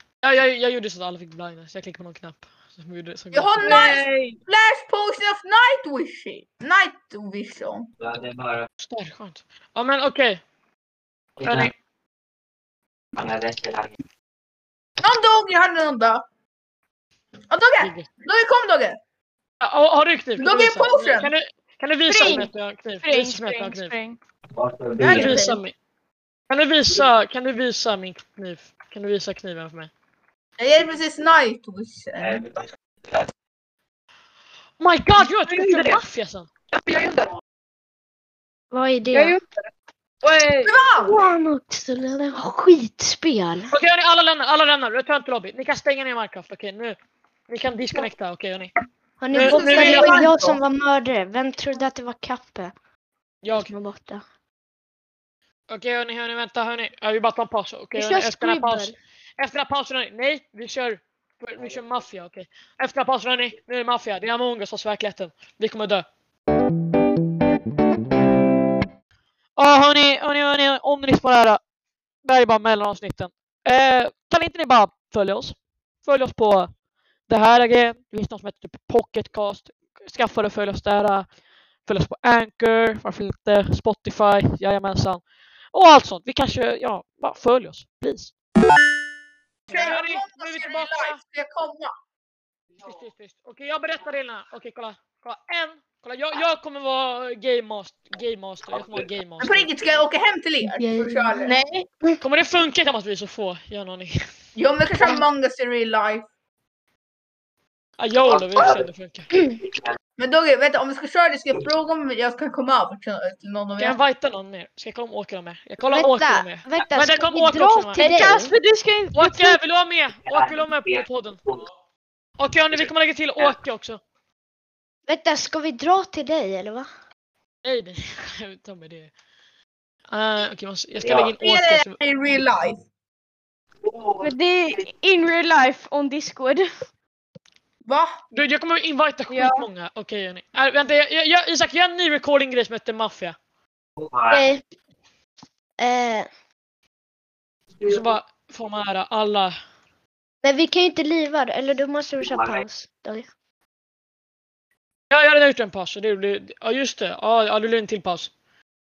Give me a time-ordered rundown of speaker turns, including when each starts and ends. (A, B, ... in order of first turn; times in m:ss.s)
0:00.2-0:03.8 A
0:03.3-0:07.9 B
0:03.6-0:04.4 C
0:08.0-0:08.6 D
0:08.8-0:10.4 A
0:11.4-0:11.7 D
0:11.4-0:11.7 A
0:13.2-0:13.9 D
0:15.0-0:16.2 B
0:17.5-0:19.0 B
0:17.8-0:18.1 A
0:19.6-0:23.9 A
0:20.4-0:21.3 B
0:22.1-0:22.5 E
0:23.0-0:24.2 E
0:24.5-0:25.5 D
0:25.0-0:25.6 B
0:25.0-0:25.7 A
0:26.5-0:29.9 A
0:30.6-0:32.6 B
0:32.2-0:33.2 D
0:34.8-0:36.5 A
0:35.4-0:36.0 C
0:36.7-0:37.3 C
0:38.7-0:39.4 F
0:39.1-0:39.5 C
0:40.2-0:40.8 C
0:40.6-0:41.2 B
0:41.0-0:43.7 F
0:43.7-0:47.0 A
0:47.5-0:48.7 A
0:49.2-0:52.7 F
0:49.3-0:50.4 A
0:49.3-0:50.6 B
0:53.4-0:53.7 A
0:53.5-0:54.2 F
0:55.7-1:06.0 A
0:57.9-0:59.0 F
1:09.6-1:11.6 A
1:12.2-1:16.7 A
1:17.3-1:21.2 A
1:21.8-1:25.2 A
1:25.7-1:28.3 A
1:29.7-1:31.2 A
1:29.7-1:31.9 B
1:32.8-1:39.7 A
1:38.7-1:39.1 D
1:39.4-1:41.6 B
1:40.6-1:42.2 F
1:41.4-1:41.9 E
1:42.2-1:44.2 A
1:44.6-1:46.3 B
1:48.0-1:49.3 A
1:48.2-1:48.8 D
1:49.6-1:49.9 D
1:50.2-1:54.0 B
1:53.8-1:58.0 A
1:55.9-1:58.5 F
1:57.9-1:59.6 E
1:59.1-2:01.4 A
2:00.3-2:01.6 D
2:02.4-2:04.0 A
2:02.7-2:03.5 D
2:05.1-2:06.9 F
2:07.6-2:09.1 A
2:10.1-2:12.0 A
2:11.0-2:11.4 D
2:11.4-2:12.8 B
2:13.8-2:14.3 D
2:14.2-2:16.7 E
2:17.8-2:18.1 B
2:18.3-2:23.4 A
2:19.3-2:19.7 E
2:24.0-2:24.5 D
2:24.3-2:24.6 F
2:25.8-2:26.3 F
2:27.8-2:28.1 D
2:27.8-2:29.5 A
2:30.4-2:33.3 F
2:32.2-2:32.6 D
2:35.1-2:38.3 A